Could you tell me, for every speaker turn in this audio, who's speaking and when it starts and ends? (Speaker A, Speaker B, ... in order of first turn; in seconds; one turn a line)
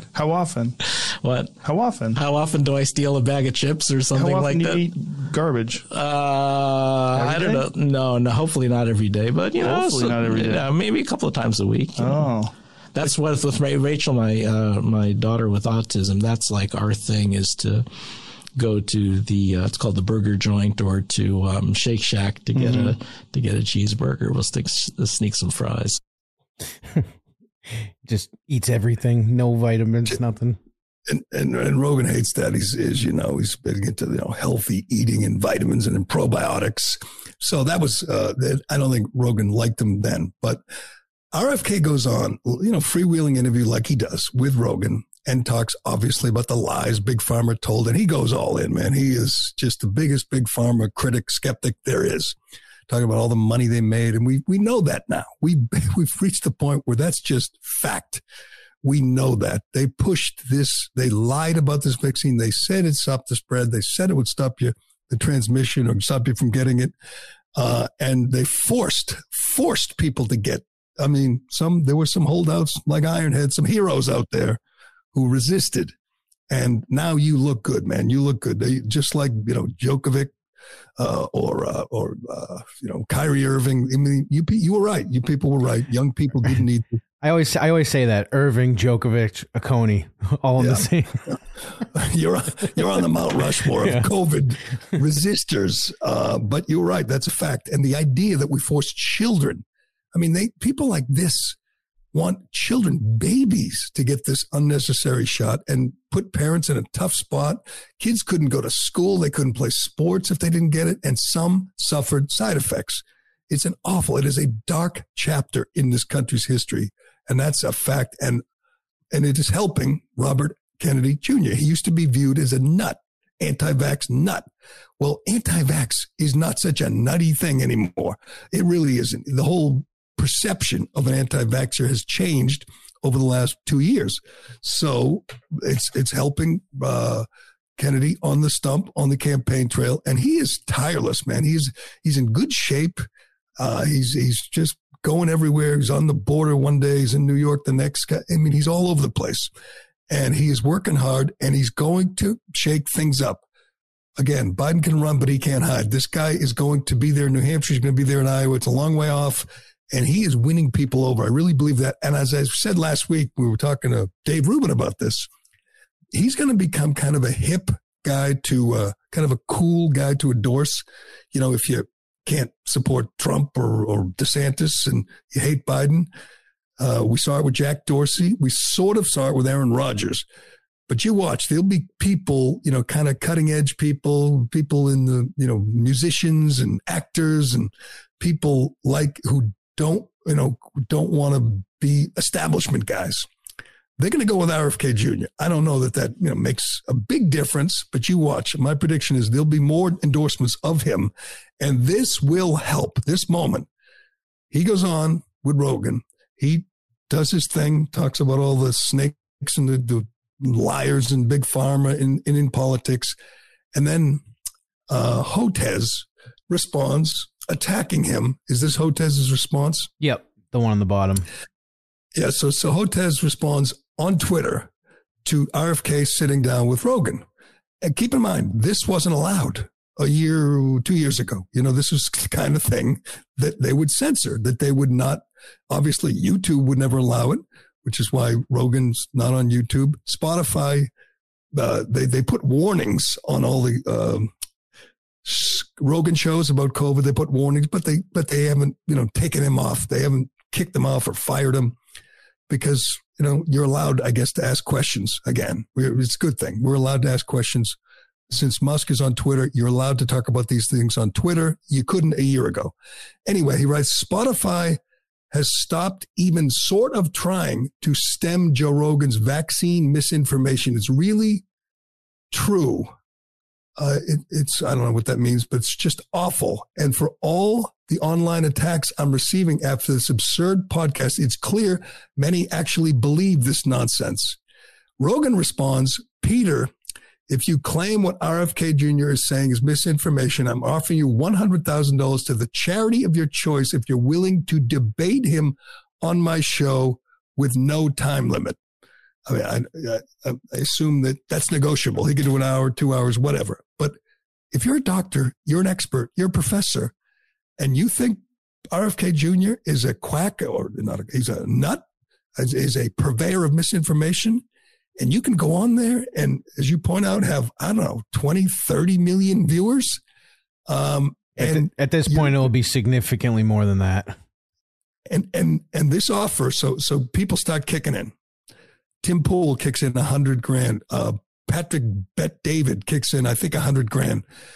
Speaker A: 0.1-0.8
Speaker B: 1.2-1.6
Speaker A: 1.6-2.2
Speaker B: 2.1-4.9
Speaker A: 4.1-5.8
Speaker B: 5.9-12.3
Speaker A: 7.1-7.7
Speaker A: 9.6-10.7
Speaker A: 12.0-12.5
Speaker B: 12.9-17.9
Speaker B: 18.5-26.0
Speaker A: 22.5-22.9
Speaker C: 28.1-30.6
Speaker D: 31.1-40.6
Speaker D: 41.3-52.4
Speaker D: 52.9-58.2
Speaker D: 58.8-66.9
Speaker D: 67.5-74.6
Speaker D: 75.1-75.9
Speaker D: 76.5-80.3
Speaker D: 81.0-87.0
Speaker C: 87.2-91.2
Speaker D: 90.6-101.6
Speaker C: 93.8-94.1
Speaker D: 102.1-118.4
Speaker D: 119.1-124.4
Speaker D: 125.0-137.3
Speaker D: 137.8-143.1
Speaker D: 143.6-149.5
Speaker D: 150.1-153.4
Speaker D: 154.2-165.3
Speaker D: 166.1-176.1
Speaker D: 176.8-180.3
Speaker D: 180.9-193.2
Speaker D: 194.0-203.7
Speaker D: 204.5-213.1
Speaker D: 213.7-214.2
Speaker D: 214.9-219.9
Speaker C: 220.0-221.3
Speaker D: 222.2-224.7
Speaker D: 225.2-227.2
Speaker D: 227.8-240.9
Speaker D: 241.5-244.3
Speaker D: 245.2-251.8
Speaker D: 252.5-257.8
Speaker D: 258.3-262.7
Speaker D: 263.3-264.8
Speaker D: 265.3-271.4
Speaker D: 272.3-272.9
Speaker D: 273.8-284.4
Speaker D: 285.0-286.7
Speaker D: 287.3-298.6
Speaker D: 299.3-303.9
Speaker D: 304.5-306.9
Speaker D: 307.6-311.9
Speaker D: 312.4-314.4
Speaker D: 315.0-320.0
Speaker D: 320.7-322.5
Speaker C: 321.4-324.2
Speaker D: 325.1-328.1
Speaker D: 329.0-334.2